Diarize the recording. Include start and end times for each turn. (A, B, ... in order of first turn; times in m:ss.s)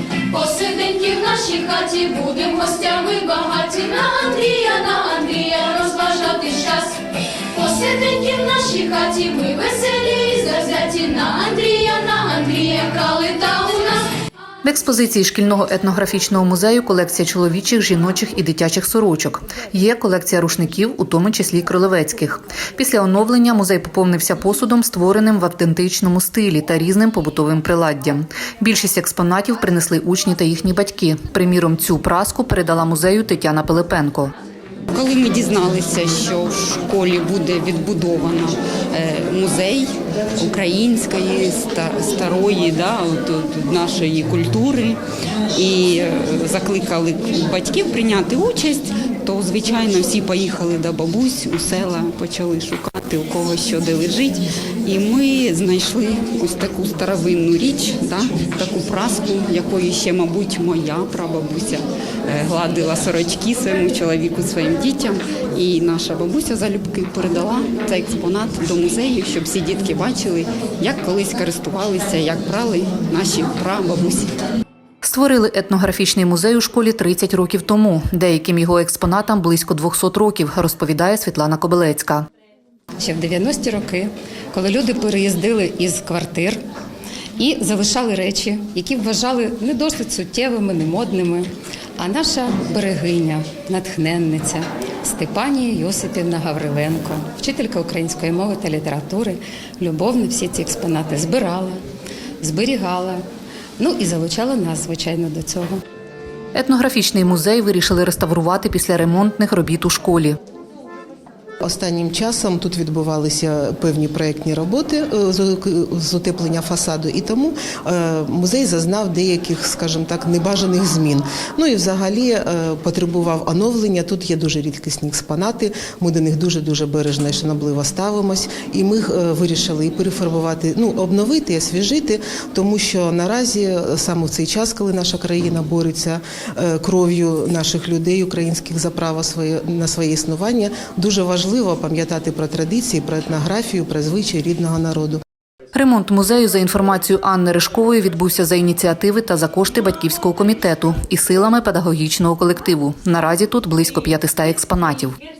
0:00.3-0:14.1 A
0:14.6-0:34.3 B
0:34.9-0:45.0 C
0:45.5-1:14.3 C
1:15.0-1:22.3 B
1:23.0-1:26.6 D
1:27.4-1:41.8 D
1:42.4-1:43.2 D
1:43.8-1:45.8 D
1:46.5-1:50.4 B
1:51.6-2:25.2 E
2:25.7-2:35.2 B